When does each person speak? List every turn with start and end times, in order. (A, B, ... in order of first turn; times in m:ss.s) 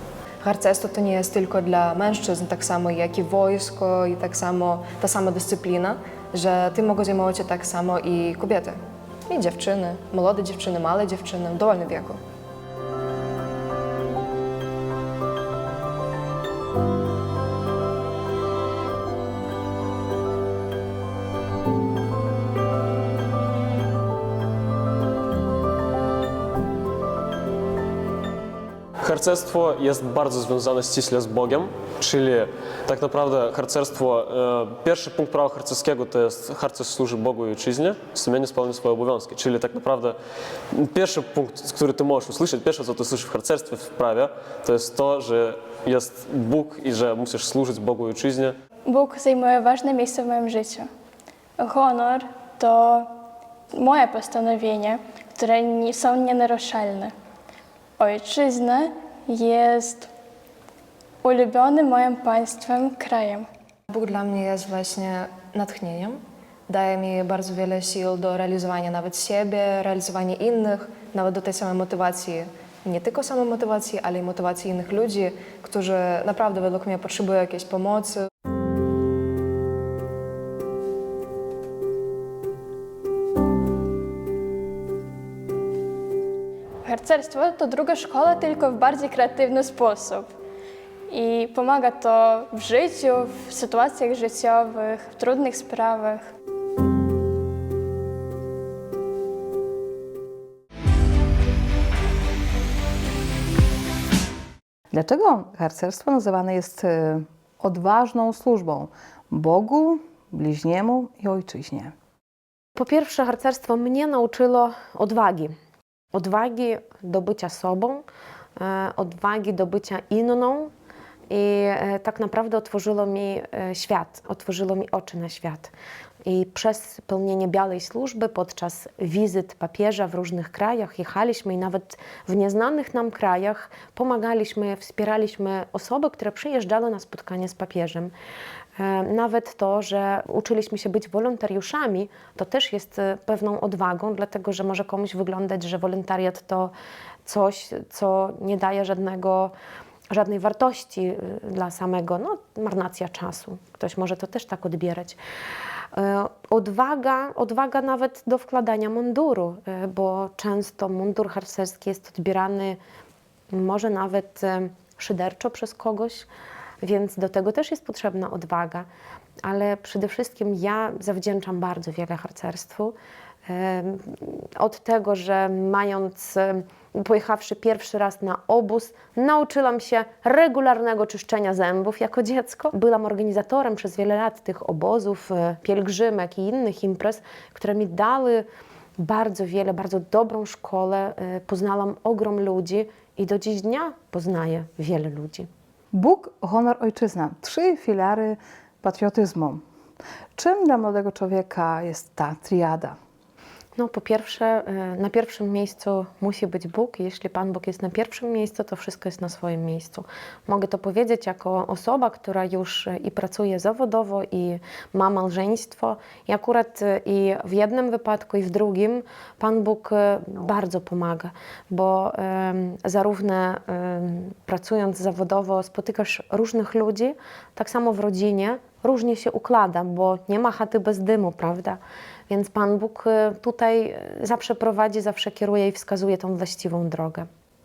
0:00.4-0:12.2 A
0:29.0-0:40.1 B
0:40.8-0:48.5 B
0:48.9-0:50.9 C
0:51.6-0:53.1 C
0:53.7-0:57.1 C
0:58.0-1:00.1 C
1:01.2-1:03.4 C
1:03.9-1:18.2 A
1:26.8-1:30.3 C
1:31.1-1:36.2 C
1:44.9-1:51.9 D
1:52.7-1:55.5 E
1:56.1-1:58.0 E
1:58.6-2:00.7 E
2:01.3-2:05.7 E
2:06.2-2:18.1 E
2:18.8-2:26.7 E
2:27.2-2:29.5 E
2:30.1-2:35.2 E
2:35.9-2:42.8 E
2:43.5-2:46.3 E
2:46.8-2:48.9 E
2:49.4-2:52.9 E
2:53.5-3:08.4 E
3:09.0-3:15.5 E
3:15.9-3:19.6 D
3:20.4-3:22.9 D
3:23.8-3:57.3 E